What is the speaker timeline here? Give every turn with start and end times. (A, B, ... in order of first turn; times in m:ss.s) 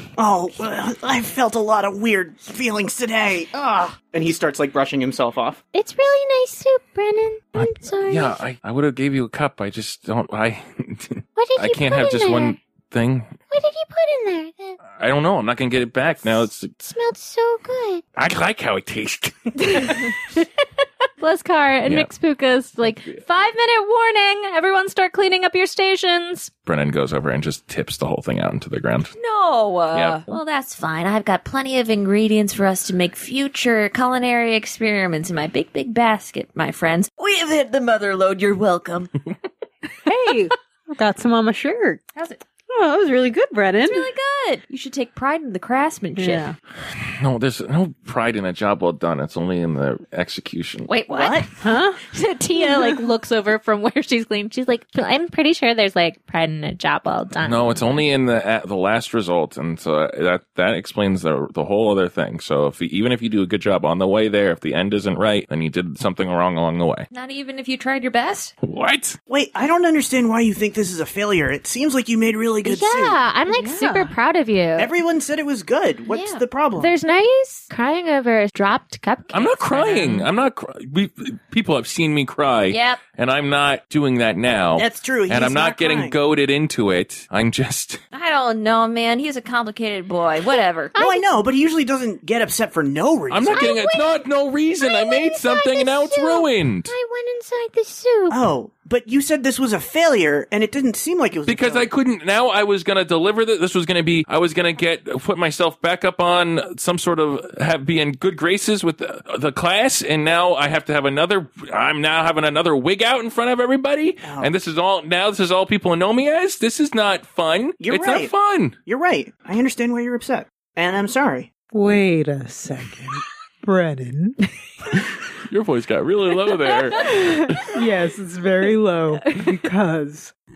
0:00.2-0:05.6 A
0:05.7-0:08.4 B
0:07.6-0:13.4 C
0:11.4-0:12.6 B
0:13.5-0:14.8 B
0:14.9-0:16.9 C
0:16.9-0:18.0 B
0:18.2-0:20.1 C
0:19.6-0:20.5 B
0:21.2-0:26.5 B
0:21.8-0:22.1 C
0:26.7-0:29.1 C
0:29.2-0:39.1 D
0:29.9-0:30.4 C
0:40.1-0:40.5 B
0:40.1-0:42.0 E
0:42.2-0:42.4 D
0:42.7-0:44.1 E
0:43.8-0:46.5 D
0:46.2-0:46.6 E
0:46.9-0:50.9 C
0:50.9-0:51.5 D
0:51.1-0:51.5 A
0:51.6-0:52.0 E
0:52.0-0:58.0 B
0:57.4-1:07.1 C
1:07.1-1:08.6 D
1:08.6-1:09.2 C
1:09.3-1:13.2 A
1:12.6-1:14.9 B
1:13.5-1:14.1 E
1:14.8-1:16.9 A
1:16.1-1:16.4 D
1:16.8-1:20.2 B
1:19.3-1:28.0 C
1:22.7-1:23.0 D
1:24.8-1:26.2 A
1:28.1-1:31.0 D
1:31.0-1:31.2 B
1:31.0-1:33.8 A
1:33.3-1:36.9 C
1:33.5-1:34.2 B
1:34.8-1:38.4 B
1:38.3-1:41.9 A
1:41.5-1:58.8 C
1:54.2-1:54.5 A
1:57.8-1:58.3 A
1:58.8-2:01.5 A
2:01.7-2:04.5 E
2:05.4-2:07.7 C
2:07.0-2:10.3 E